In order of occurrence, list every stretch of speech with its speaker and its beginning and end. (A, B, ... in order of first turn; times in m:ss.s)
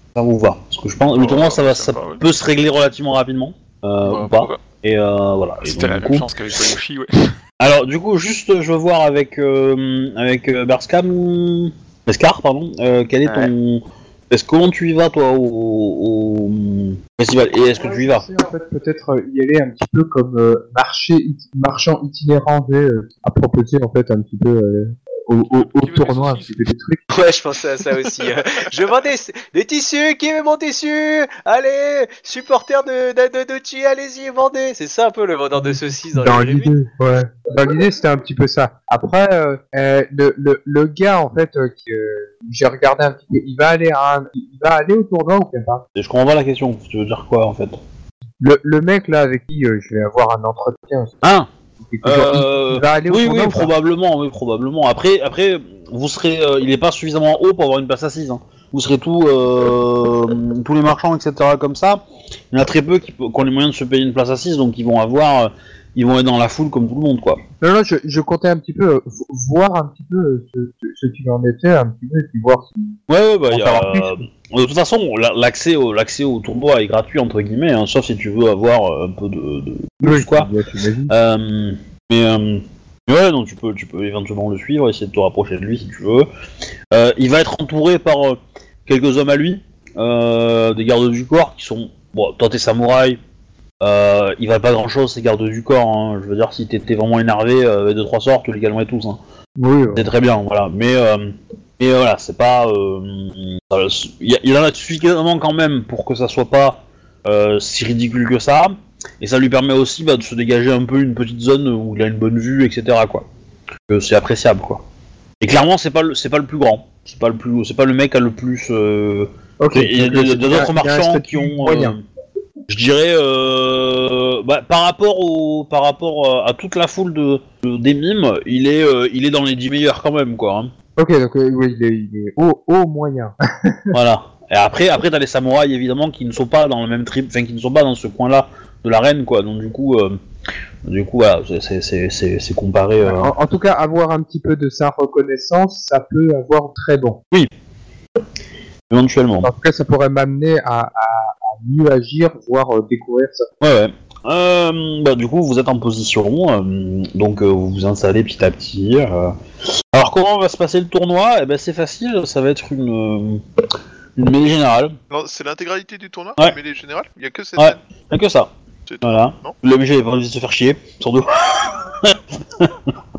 0:00.2-0:06.3 A
0:01.1-0:02.2 B
0:04.0-0:04.6 B
0:05.6-0:07.3 B
0:07.6-0:18.3 A
0:13.2-0:13.5 C
0:17.6-0:27.0 D
0:25.4-0:26.6 B
0:27.1-0:36.7 C
0:36.1-0:45.9 D
0:46.0-0:47.8 A
0:48.4-0:51.2 D
0:51.2-0:51.5 A
0:51.9-0:53.7 D
0:52.0-1:07.4 A
1:07.6-1:13.0 D
1:13.1-1:20.5 A
1:13.5-1:14.2 D
1:20.0-1:21.1 D
1:21.1-1:26.3 A
1:26.9-1:33.2 A
1:33.8-1:39.2 A
1:39.6-1:40.0 D
1:39.9-1:53.2 A
1:53.9-1:54.8 A
1:55.4-2:02.0 A
1:59.6-2:02.0 D
2:02.7-2:10.7 A
2:11.0-2:13.9 D
2:13.9-2:20.2 A
2:20.8-2:23.3 A
2:23.0-2:27.2 D
2:28.9-2:29.5 A
2:29.4-2:33.5 D
2:33.6-2:43.4 A
2:44.2-2:45.0 A
2:45.1-2:47.8 E
2:47.6-2:48.5 A
2:48.9-2:49.6 E
2:49.0-2:52.9 A